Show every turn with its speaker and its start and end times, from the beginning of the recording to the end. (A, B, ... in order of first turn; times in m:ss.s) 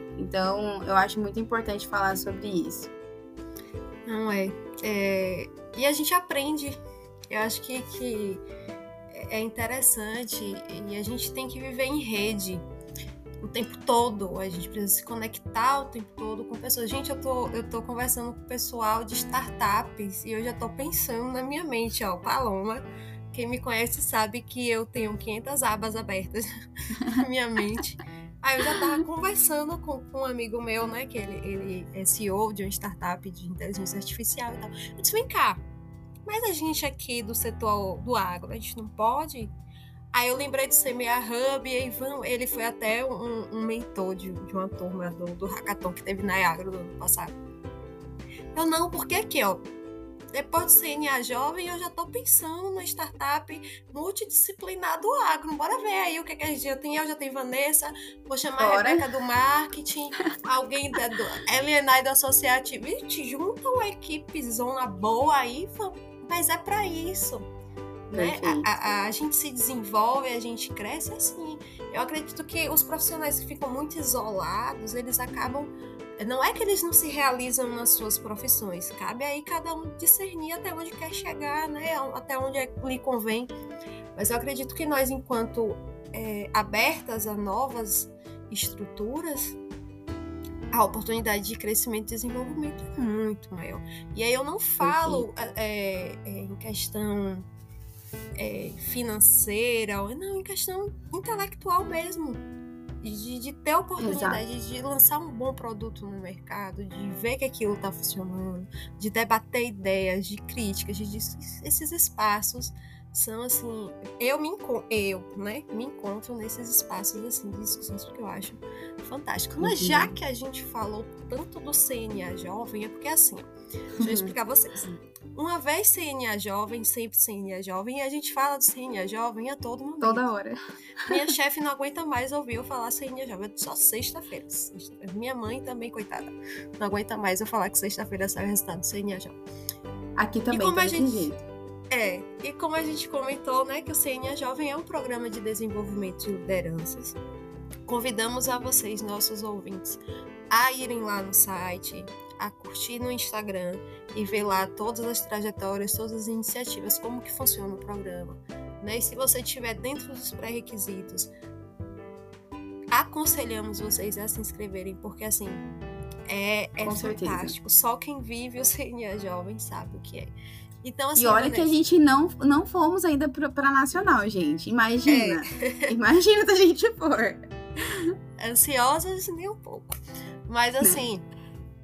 0:00.2-0:02.9 A
0:04.1-0:06.8 B
0:07.3-0:08.4 B
0:09.1-0:12.6 B
0:13.4-0:35.6 B
0:36.2-0:39.5 B
0:40.1-0:47.4 B
0:48.5-0:49.6 B
0:50.3-1:07.5 B
0:58.6-0:59.1 A
1:08.1-1:23.5 B
1:08.1-1:08.7 A
1:24.2-1:29.6 B
1:30.7-1:37.5 B
1:34.8-1:35.2 A
1:38.4-1:42.4 B
1:43.0-2:10.2 B
1:44.0-1:44.4 A
1:59.6-2:00.2 A
2:04.0-2:04.3 A
2:10.0-2:11.2 A
2:11.0-2:19.4 B
2:20.2-2:21.4 A
2:20.5-2:21.3 B
2:21.9-2:27.2 B
2:27.9-2:41.3 B
2:42.9-2:45.6 B
2:46.3-2:51.8 B
2:46.8-2:47.6 A
2:51.2-2:58.1 A
2:55.1-2:55.9 B
2:58.4-3:01.2 B